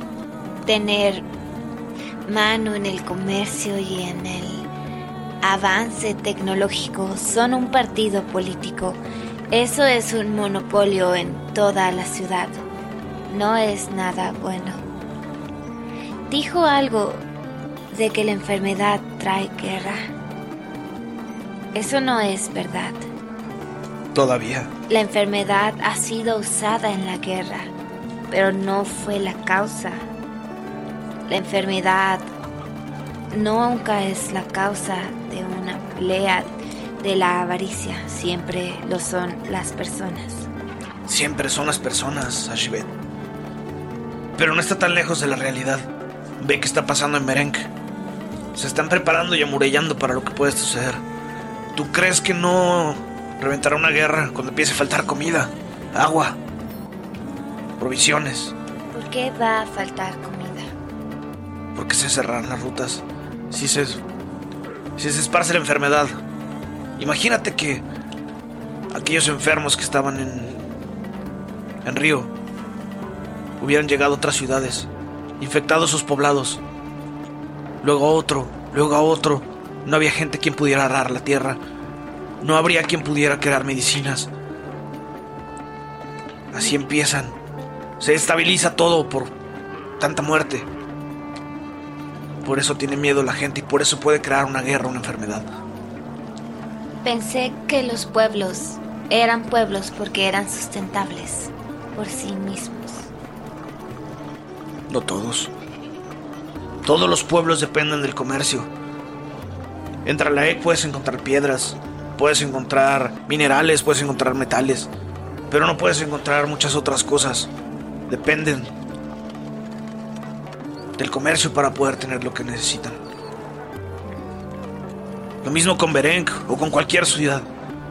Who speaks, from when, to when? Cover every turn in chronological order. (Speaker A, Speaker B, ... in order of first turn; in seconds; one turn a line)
Speaker A: 0.6-1.2
Speaker A: 2.2-4.7
Speaker A: 5.4-9.0
Speaker A: 9.5-12.6
Speaker A: 13.3-14.8
Speaker A: 16.3-17.2
Speaker A: 17.9-20.1
Speaker A: 21.7-23.1
Speaker B: 24.1-24.7
Speaker A: 24.9-27.7
Speaker A: 28.3-30.1
Speaker A: 31.3-32.3
Speaker A: 33.3-36.5
Speaker A: 37.0-40.5
Speaker B: 41.0-42.9
Speaker B: 44.4-45.9
Speaker B: 46.4-47.7
Speaker B: 48.5-51.0
Speaker B: 51.7-56.4
Speaker B: 57.8-58.5
Speaker A: 58.9-60.7
Speaker B: 61.7-64.0
Speaker B: 65.0-66.2
Speaker B: 67.0-67.8
Speaker B: 68.9-70.6
Speaker B: 71.8-72.3
Speaker B: 73.6-74.9
Speaker B: 75.4-76.6
Speaker B: 77.8-81.6
Speaker B: 82.4-84.3
Speaker B: 86.5-87.3
Speaker B: 88.0-89.3
Speaker B: 90.0-90.7
Speaker B: 92.4-95.5
Speaker A: 97.0-103.1
Speaker B: 104.9-105.5
Speaker B: 106.8-108.7
Speaker B: 110.0-114.9
Speaker B: 115.5-117.5
Speaker B: 118.1-118.7
Speaker B: 121.0-123.0
Speaker B: 125.4-127.5